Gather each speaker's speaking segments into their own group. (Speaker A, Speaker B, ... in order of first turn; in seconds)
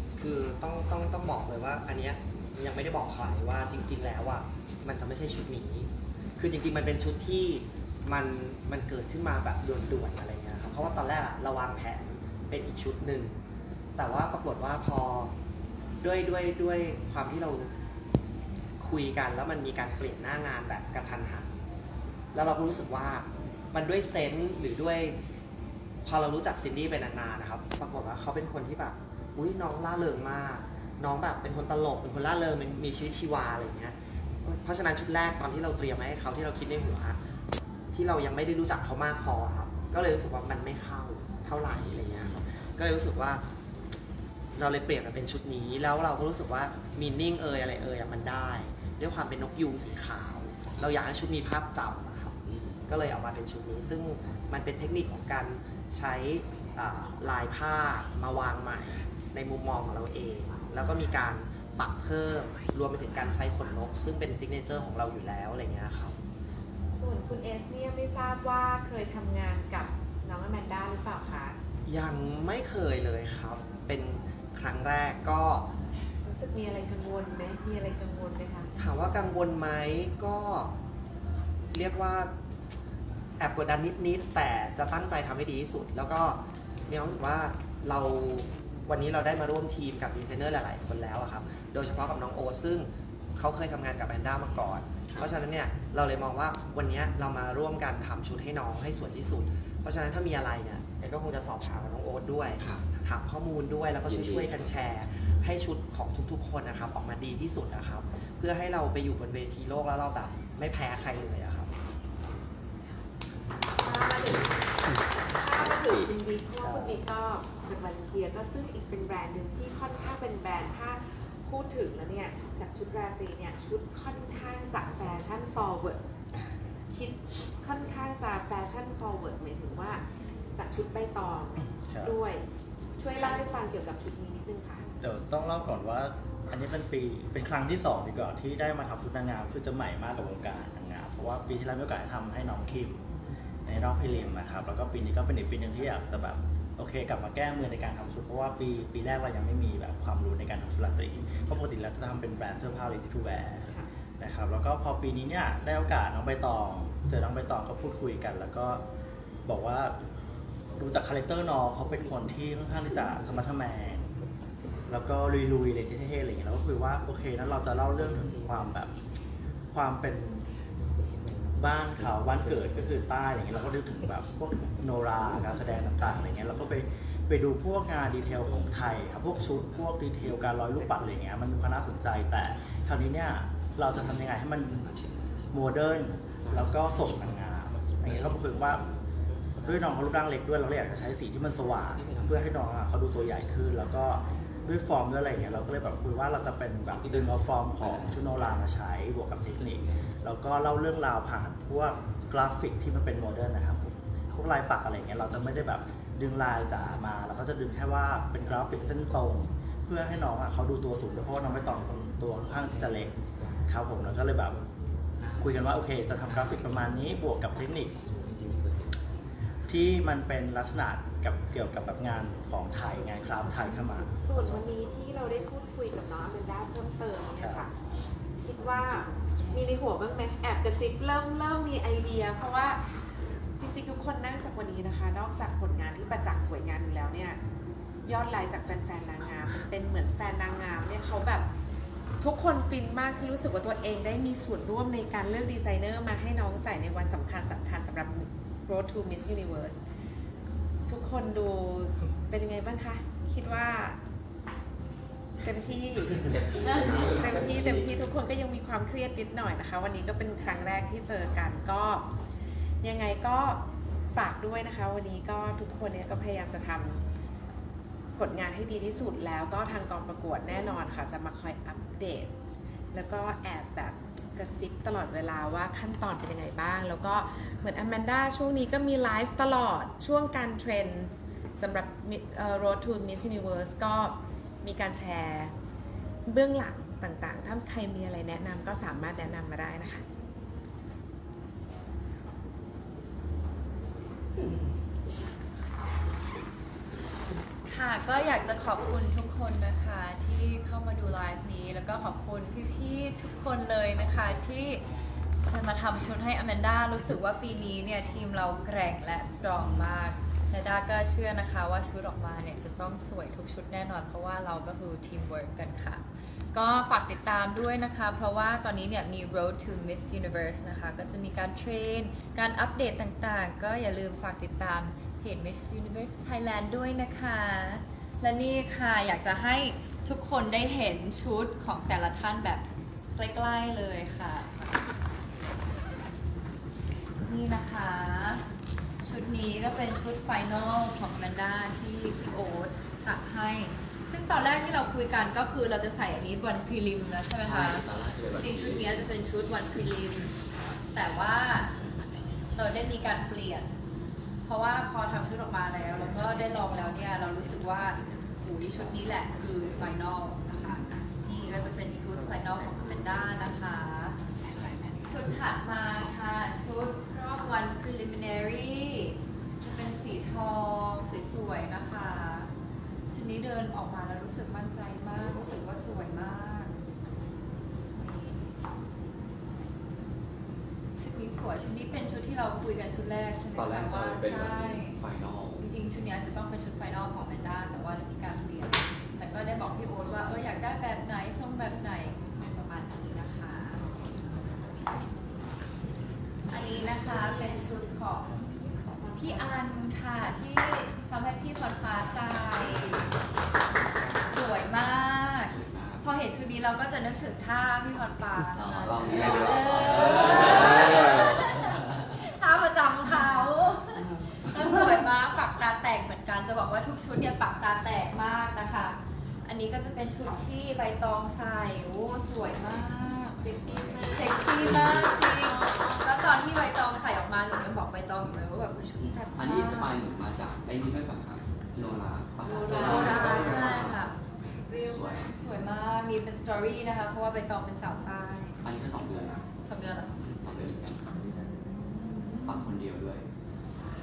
Speaker A: 0.2-13.3, 14.0-15.3, 16.0-17.7, 18.8-21.5, 22.3-25.2, 26.1-37.2, 37.9-43.4, 44.5-52.4, 52.9-66.2, 71.9-75.7, 78.8-80.7, 81.7-82.3, 83.4-111.7
Speaker B: 41.7-42.5, 52.5-52.8, 104.0-104.7, 115.5-116.1, 184.8-185.3, 256.5-257.9, 347.4-348.9, 383.5-385.6, 405.4-406.0, 408.6-411.8, 414.1-414.5, 423.6-424.1, 424.7-425.1, 429.0-434.1, 434.8-435.3, 438.6-439.4, 440.2-441.2, 442.4-443.2
Speaker C: 66.9-71.5, 76.2-78.7, 113.8-114.5, 115.3-126.0, 126.9-130.0, 130.5-132.4, 133.0-134.9, 224.2-227.7, 228.4-232.8, 233.6-237.4, 238.0-241.5, 242.2-249.8, 250.9-254.0, 255.4-262.1, 262.8-267.0, 268.1-272.3, 272.9-285.5, 286.2-290.0, 399.0-399.5, 432.4-433.9
Speaker D: 116.6-116.9, 131.9-132.1, 135.0-143.0, 143.6-158.8, 159.5-160.0, 160.8-164.1, 164.9-168.9, 169.7-170.5, 171.5-184.8, 185.5-188.9, 189.6-214.6, 215.4-218.0, 219.7-224.4, 227.4-227.7
Speaker E: 297.7-304.8, 305.5-334.8, 337.2-338.4, 339.0-350.3, 350.9-351.7, 352.5-353.7, 354.5-364.1, 365.0-372.5, 373.1-376.7, 378.0-378.6, 381.0-385.0, 385.6-393.8, 396.5-398.3, 399.1-403.1, 404.2-423.5, 424.0-429.9, 432.7-434.2, 434.7-438.6, 439.6-440.2, 441.1-442.7